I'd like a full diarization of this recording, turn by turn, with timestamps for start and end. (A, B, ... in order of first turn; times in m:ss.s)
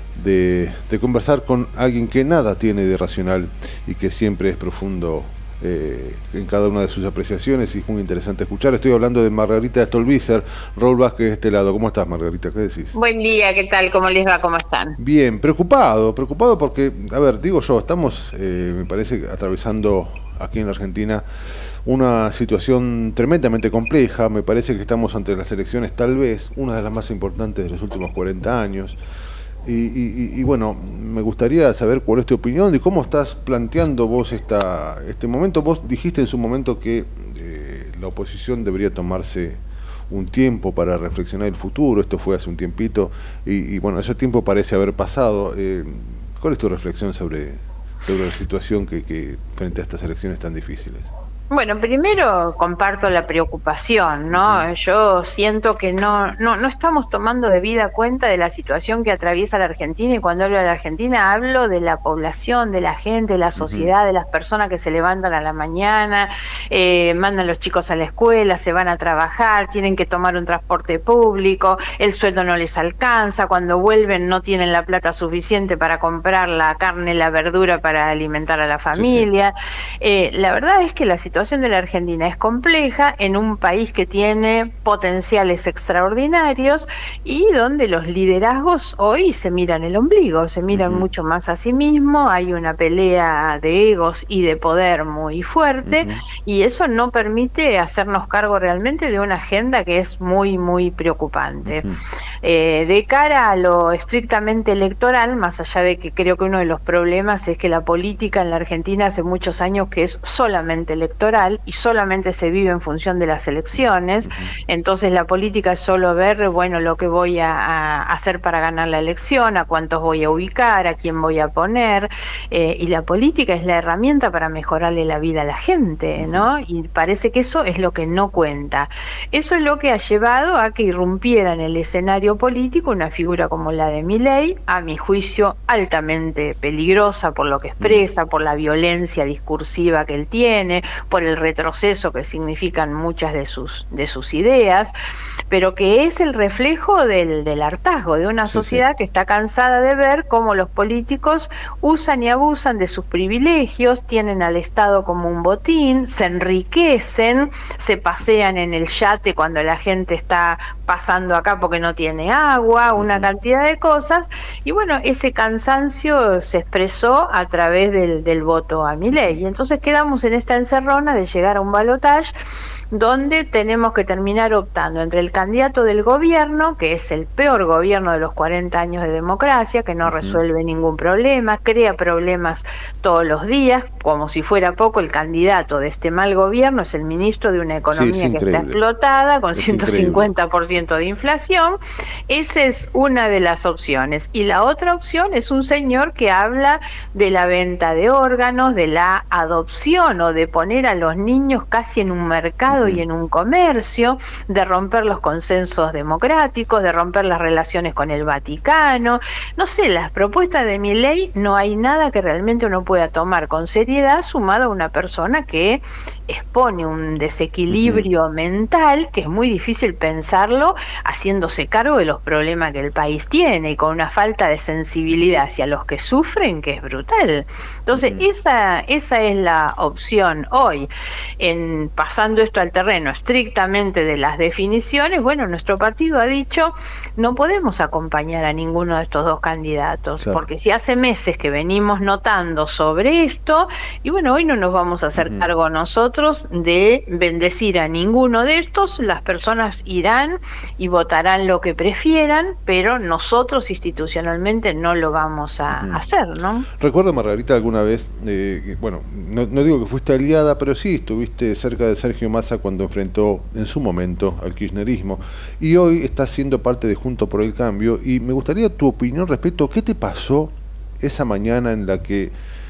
0:00.2-0:13.0 A
0:12.9-0:15.0 B
0:15.0-0:21.2 A
0:21.9-0:29.0 A
0:29.6-0:51.1 A
0:51.5-1:41.9 B
0:54.3-0:54.7 A
1:03.6-1:03.9 A
1:18.9-1:19.3 A
1:30.7-1:31.1 A
1:35.8-1:36.2 A
1:41.6-1:42.0 A
1:42.4-3:11.8 B
1:54.2-1:54.5 A
2:06.2-2:06.5 A
2:17.8-2:18.1 A
2:28.5-2:28.8 A
2:43.0-2:43.3 A
2:49.1-2:49.4 A
3:00.0-3:00.4 A
3:07.9-3:08.8 A
3:09.5-3:10.3 A
3:12.3-3:50.9 B
3:22.7-3:23.0 A
3:37.7-3:38.1 A
3:47.9-3:48.3 A
3:51.4-4:16.7 B
4:05.2-4:05.5 A
4:15.7-4:16.0 A
4:16.8-4:32.3 A